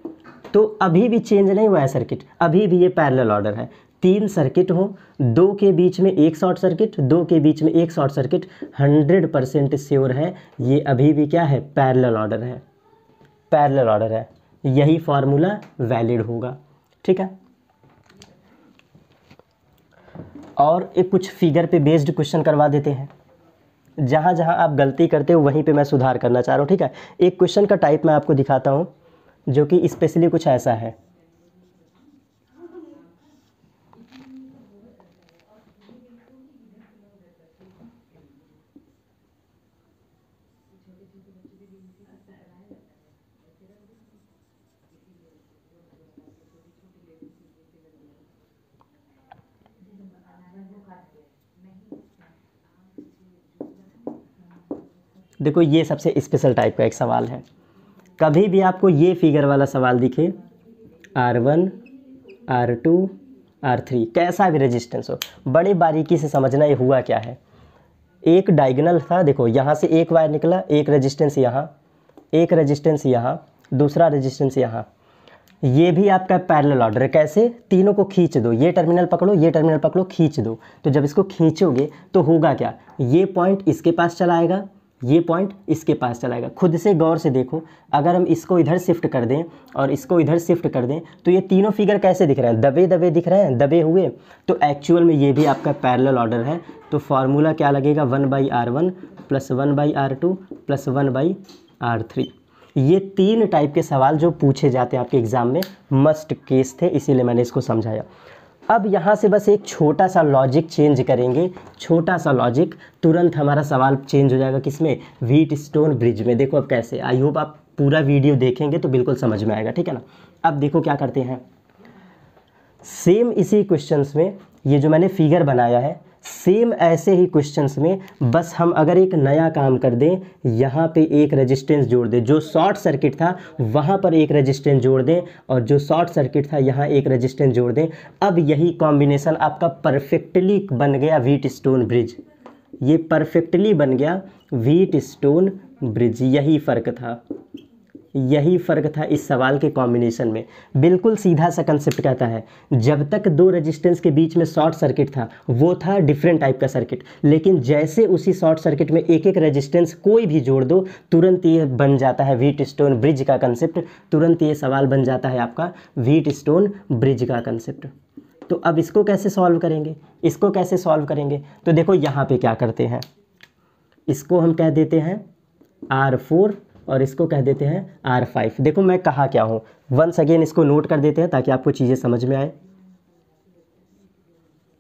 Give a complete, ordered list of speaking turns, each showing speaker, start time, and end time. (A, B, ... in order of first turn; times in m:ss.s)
0:00.5-0:12.6 A
0:13.5-0:17.3 A
0:20.6-0:23.1 A
0:24.0-0:28.9 A
0:29.5-0:31.0 A
0:55.4-0:57.4 A
0:58.2-1:00.4 A
1:01.2-1:01.8 A
1:02.5-1:07.4 A
1:08.2-1:11.7 A
1:12.3-1:14.9 A
1:15.6-1:48.1 A
1:48.7-2:01.4 A
2:02.8-2:22.2 A
2:22.8-2:27.2 A
2:28.2-2:47.9 A
2:48.5-2:53.0 A
2:54.1-2:55.2 A
2:55.9-3:02.6 A